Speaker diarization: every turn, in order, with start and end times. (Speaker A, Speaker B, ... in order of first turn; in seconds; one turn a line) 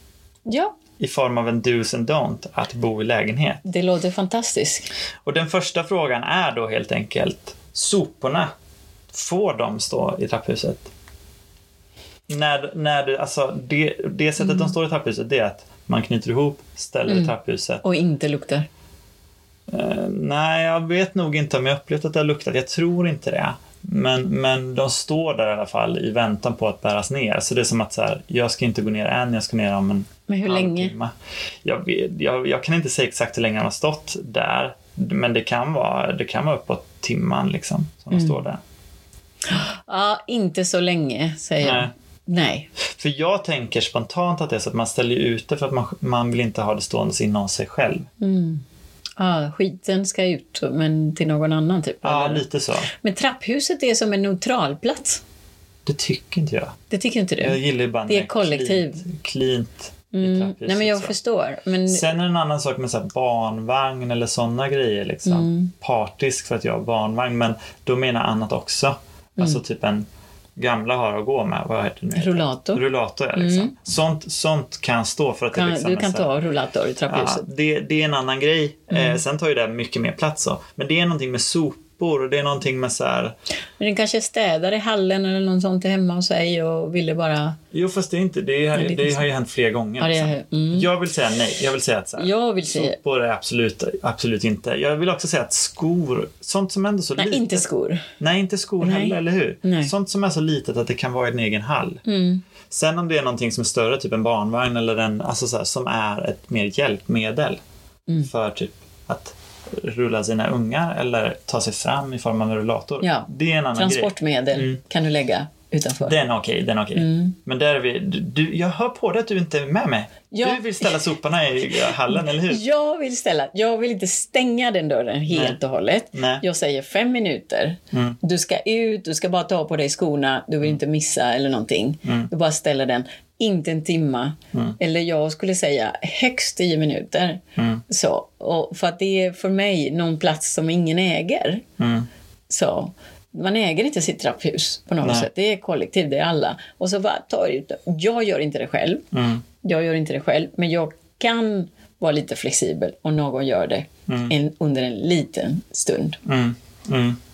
Speaker A: 0.5-0.8
Speaker B: 1.0-3.6
Speaker A: 3.6-4.9
Speaker B: 5.2-8.5
Speaker B: 9.1-10.9
Speaker B: 12.3-17.8
Speaker A: 14.4-14.7
Speaker A: 17.1-18.7
Speaker B: 19.7-38.6
Speaker A: 30.3-30.9
Speaker A: 39.4-42.7
Speaker B: 41.6-41.9
Speaker B: 42.9-48.1
Speaker A: 48.2-48.6
Speaker A: 49.2-55.2
Speaker B: 52.0-52.9
Speaker B: 55.9-56.8
Speaker A: 56.9-59.0
Speaker B: 57.4-61.1
Speaker A: 60.1-62.1
Speaker B: 61.9-76.3
Speaker A: 65.2-65.7
Speaker A: 72.2-72.8
Speaker A: 73.3-73.7
Speaker A: 75.5-77.4
Speaker B: 77.1-83.3
Speaker A: 78.9-79.2
Speaker A: 83.8-87.6
Speaker B: 87.7-97.6
Speaker A: 88.7-89.2
Speaker A: 90.0-90.9
Speaker A: 92.2-93.0
Speaker A: 97.2-98.0
Speaker B: 98.2-102.0
Speaker A: 98.8-99.9
Speaker A: 102.0-102.4
Speaker B: 102.7-107.6
Speaker B: 108.2-114.8
Speaker A: 113.0-116.2
Speaker B: 116.0-122.6
Speaker A: 116.9-117.3
Speaker A: 120.3-120.9
Speaker A: 121.7-141.6
Speaker B: 125.3-125.6
Speaker B: 126.1-126.4
Speaker B: 127.9-128.2
Speaker B: 132.0-132.3
Speaker B: 137.6-137.8
Speaker B: 141.8-142.1
Speaker A: 142.5-149.1
Speaker B: 145.0-145.3
Speaker B: 149.1-149.4
Speaker A: 149.6-156.2
Speaker B: 154.1-154.3
Speaker B: 156.2-157.2